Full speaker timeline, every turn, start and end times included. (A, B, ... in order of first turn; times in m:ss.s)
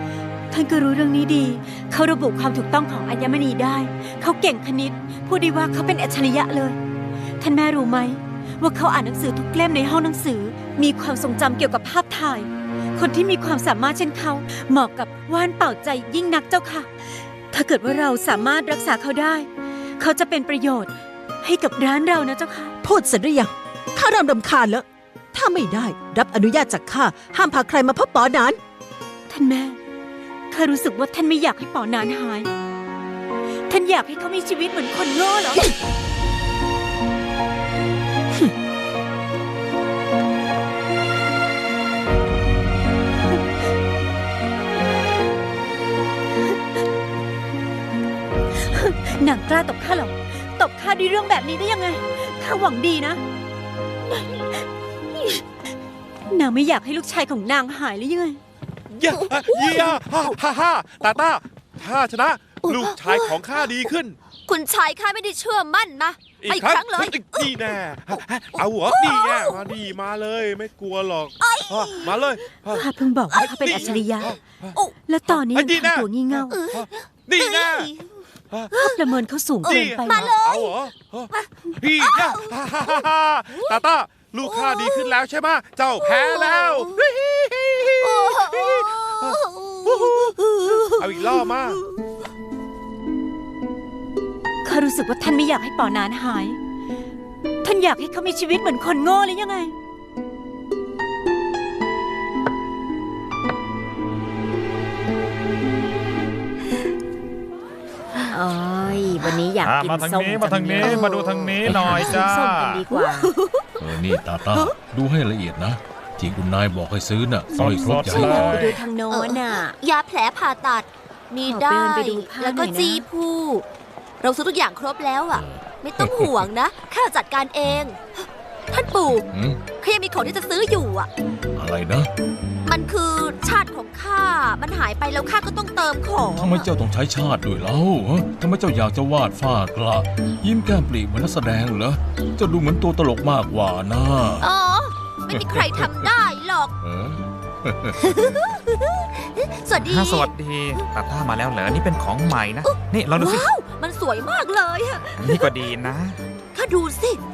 0:00.5-0:06.8 A
0:07.4-0:19.5 A
0:20.0-0:22.7 A
0:22.8-0:28.6 B
0:29.3-0:29.8 A
0:30.5-0:32.5 A
0:33.7-0:35.6 A
0:48.6-0:53.2 A
0:56.3-0:58.4 A
0:58.9-1:04.2 C
0:59.1-0:59.8 D
1:02.6-1:03.6 D
1:04.4-1:09.8 D
1:06.3-1:18.9 C
1:11.4-1:12.5 D
1:12.8-1:14.3 A
1:13.3-1:13.6 D
1:15.0-1:16.6 A
1:16.5-1:18.2 D
1:18.7-1:20.2 A
1:19.6-1:20.7 D
1:19.7-1:31.8 C
1:21.3-1:23.0 D
1:23.5-1:23.8 D
1:24.4-1:25.1 D
1:26.0-1:27.0 D
1:27.8-1:31.5 D
1:34.6-1:36.6 A
1:37.6-1:39.7 A
1:48.3-1:53.3 E
1:49.6-1:52.9 F
1:51.6-1:52.0 G
1:53.8-1:58.7 G
1:57.5-1:58.8 F
1:58.1-1:58.5 D
1:58.4-1:59.7 A
1:59.1-2:03.6 D
2:01.4-2:03.0 A
2:04.2-2:11.1 D
2:05.3-2:06.5 G
2:09.3-2:09.6 G
2:11.5-2:12.1 G
2:12.6-2:16.7 D
2:16.3-2:24.5 G
2:24.4-2:26.7 D
2:25.3-2:26.1 G
2:26.8-2:28.0 G
2:28.0-2:30.9 D
2:29.8-2:33.5 F
2:32.6-2:35.5 D
2:35.2-2:36.2 F
2:36.5-2:37.2 D